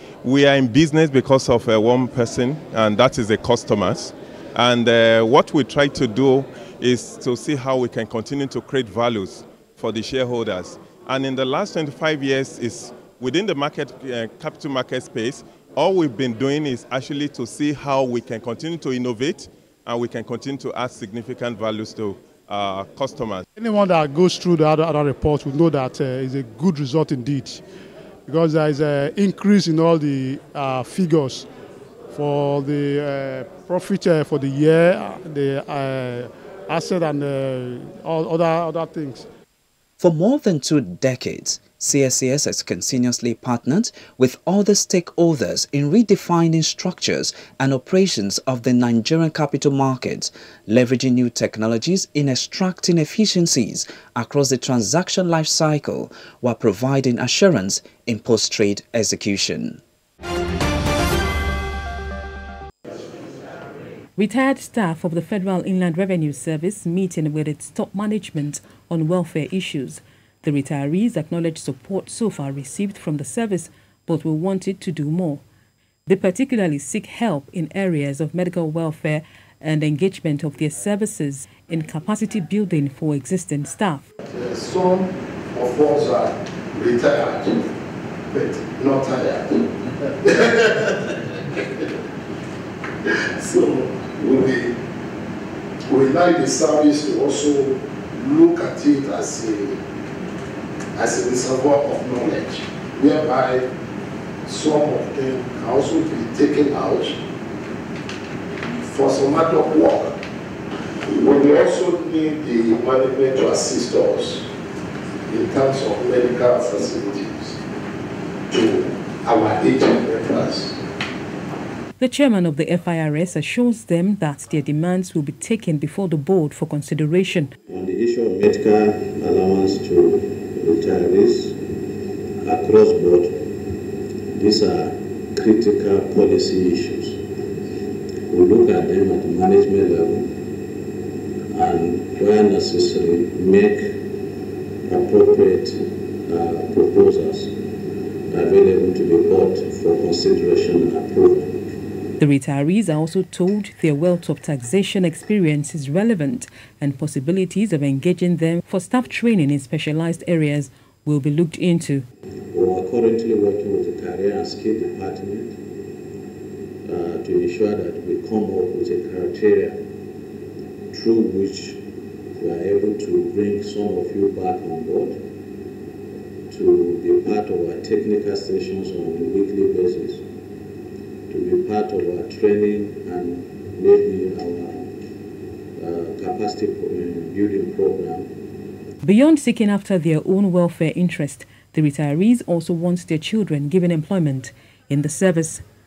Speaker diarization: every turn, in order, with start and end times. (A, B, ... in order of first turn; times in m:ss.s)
0:00.2-0:23.4 A
0:23.6-0:27.6 B
0:28.3-0:31.5 B
0:32.1-0:39.3 B
0:40.0-0:59.8 C
1:04.2-1:15.4 D
1:16.1-1:24.1 D
1:24.2-1:27.7 E
1:28.3-1:32.0 E
1:33.0-1:34.7 E
1:35.9-1:39.8 E
1:40.9-1:43.6 E
1:44.4-1:47.2 E
1:48.8-1:50.2 E
1:51.0-1:54.5 E
1:55.3-1:57.6 E
1:58.5-2:00.8 E
2:02.0-2:07.5 D
2:07.7-2:11.6 F
2:12.4-2:13.5 F
2:14.3-2:17.2 F
2:18.3-2:20.3 F
2:21.5-2:24.0 F
2:24.8-2:27.6 F
2:28.3-2:31.6 F
2:32.2-2:42.0 D
2:42.5-2:45.6 F
2:46.8-2:49.8 F
2:50.9-2:51.8 F
2:52.3-2:55.2 F
2:56.5-3:00.2 F
3:01.3-3:04.9 F
3:05.8-3:08.3 F
3:09.0-3:15.6 D